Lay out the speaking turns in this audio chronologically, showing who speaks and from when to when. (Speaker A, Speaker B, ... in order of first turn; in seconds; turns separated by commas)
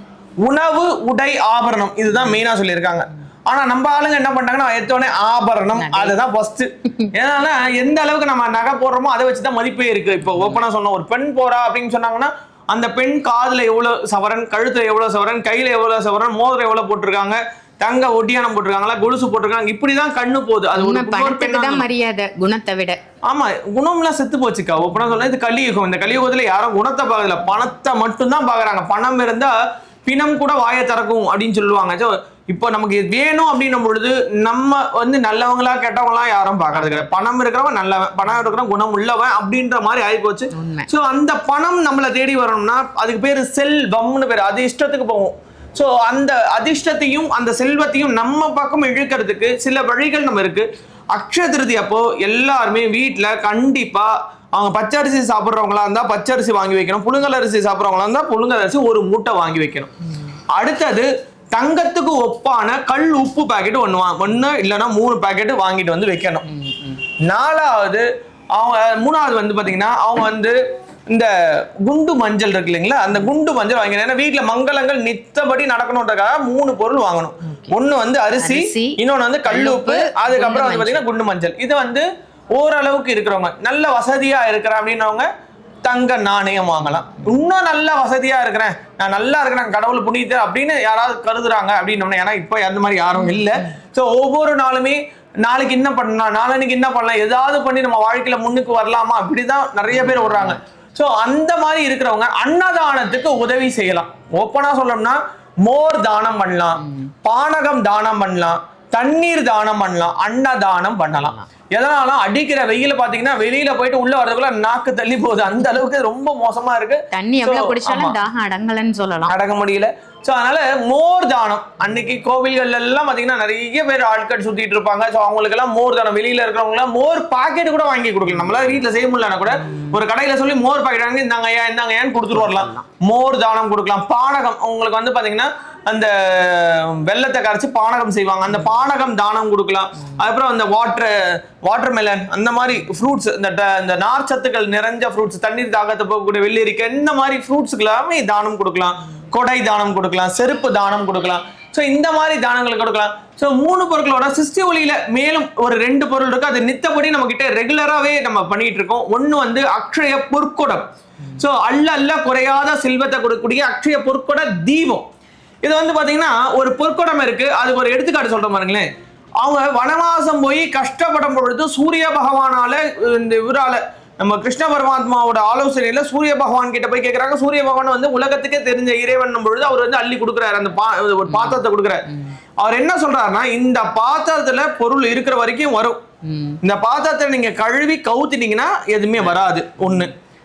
Speaker A: 0.4-21.9, Speaker B: 5.8-6.2, Speaker B: 20.8-23.0, Speaker A: 23.3-59.9, Speaker B: 36.8-37.1, Speaker B: 40.5-40.9, Speaker A: 60.5-66.4, Speaker B: 66.5-67.0, Speaker A: 67.2-70.6, Speaker A: 71.1-85.3, Speaker B: 77.5-77.7, Speaker B: 78.4-81.0, Speaker A: 85.8-118.2, Speaker B: 99.9-100.6, Speaker B: 106.8-107.1, Speaker B: 111.2-111.5, Speaker B: 117.1-119.3, Speaker A: 119.3-160.8, Speaker B: 129.6-130.0, Speaker B: 132.3-132.8, Speaker A: 161.4-165.1, Speaker A: 165.6-168.9, Speaker A: 169.4-182.0, Speaker B: 181.3-182.3, Speaker A: 182.6-186.0, Speaker B: 186.2-186.6, Speaker A: 186.6-190.1